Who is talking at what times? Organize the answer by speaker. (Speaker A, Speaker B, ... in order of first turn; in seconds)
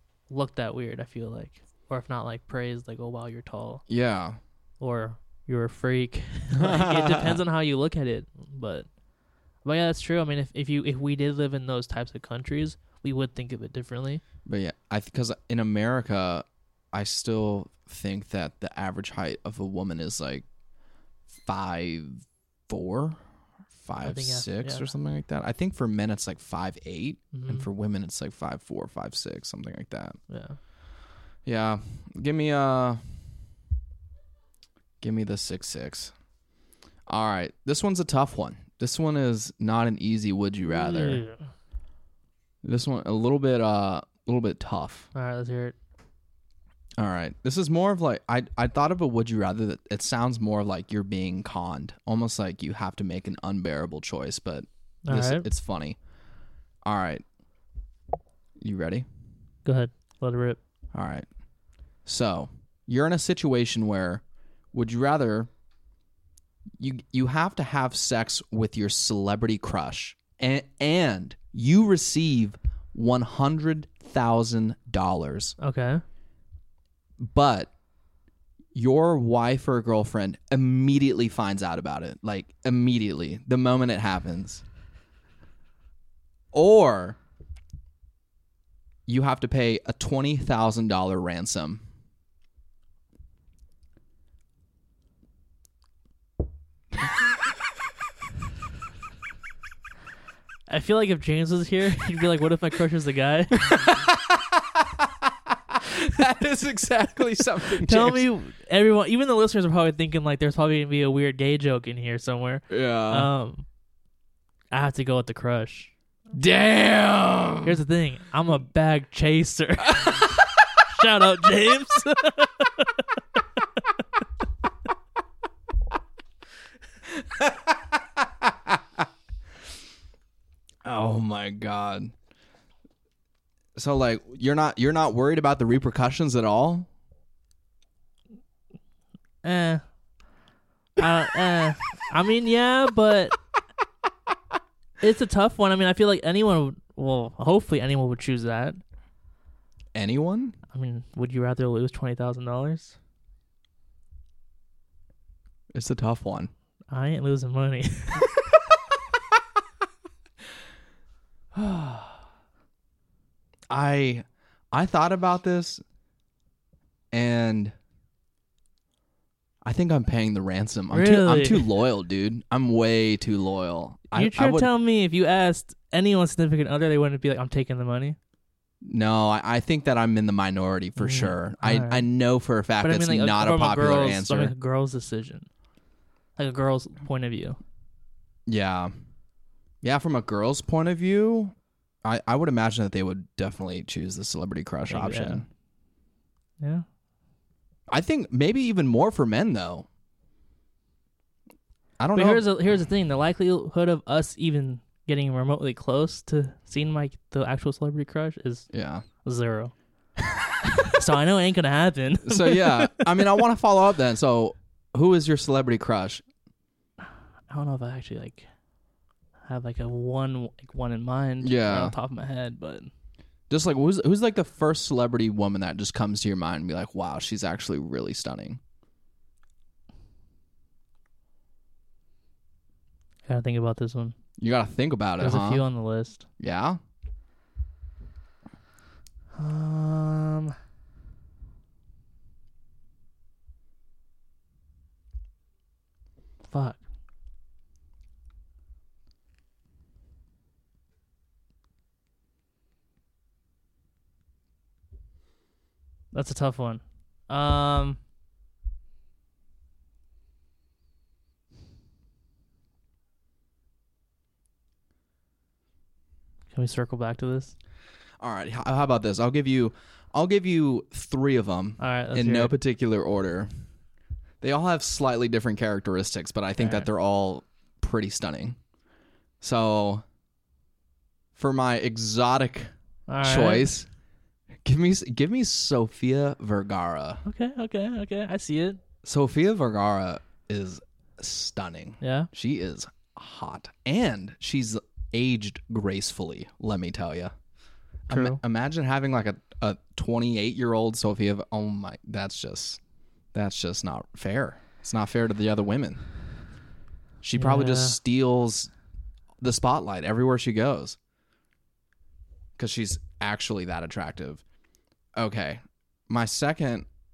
Speaker A: 0.3-3.8, 4.8-8.9, 9.6-14.2, 24.0-24.9, 27.3-27.7, 30.3-30.6, 40.7-41.4, 45.1-45.8, 55.0-55.5, 59.6-60.6, 75.6-76.0, 100.7-103.7, 107.8-113.7, 114.7-115.9, 117.6-120.3, 120.8-123.2, 139.4-139.8, 141.0-143.4, 145.0-148.8, 150.7-153.0, 156.9-158.3, 170.9-171.7, 174.1-178.2, 181.0-182.1, 182.8-185.5, 186.4-187.6, 194.9-195.4, 196.6-196.9, 202.2-208.7, 209.2-209.7, 210.7-213.2, 217.5-218.5, 219.4-222.9, 233.3-234.2, 235.2-236.3, 239.4-240.6, 246.4-246.8, 256.1-258.0, 266.5-267.5, 271.8-272.6, 276.6-276.9, 283.1-283.7, 287.2-288.8, 292.0-292.3, 298.1-298.4, 307.4-308.0
Speaker B: 3.9-4.4, 6.5-7.4, 14.5-20.4, 21.3-23.2, 23.8-30.2, 31.5-33.0, 35.0-36.1, 37.1-41.2, 42.6-45.1, 47.0-56.0, 56.9-57.2, 58.6-59.1, 60.9-61.3, 62.1-64.2, 64.7-65.5, 66.8-75.5, 77.2-77.7, 78.7-84.6, 86.5-87.2, 89.1-91.8, 103.6-108.3, 112.7-113.3, 116.3-117.8, 119.9-120.8, 127.1-128.8, 130.8-132.1, 133.8-136.9, 149.9-150.6, 155.7-156.5, 161.6-162.1, 163.7-165.8, 167.1-167.7, 169.6-174.7, 178.8-184.5, 188.5-188.9, 189.8-195.5, 197.9-199.9, 202.0-202.5, 208.7-209.1, 212.2-216.2, 221.4-222.0, 223.5-228.6, 234.4-235.7, 236.4-236.8, 268.2-273.5, 274.4-278.6, 279.4-280.0, 281.4-283.9, 284.6-287.2, 289.0-297.3, 298.1-302.8, 303.3-306.0, 307.2-308.7, 309.4-311.0, 312.6-314.4, 315.2-316.9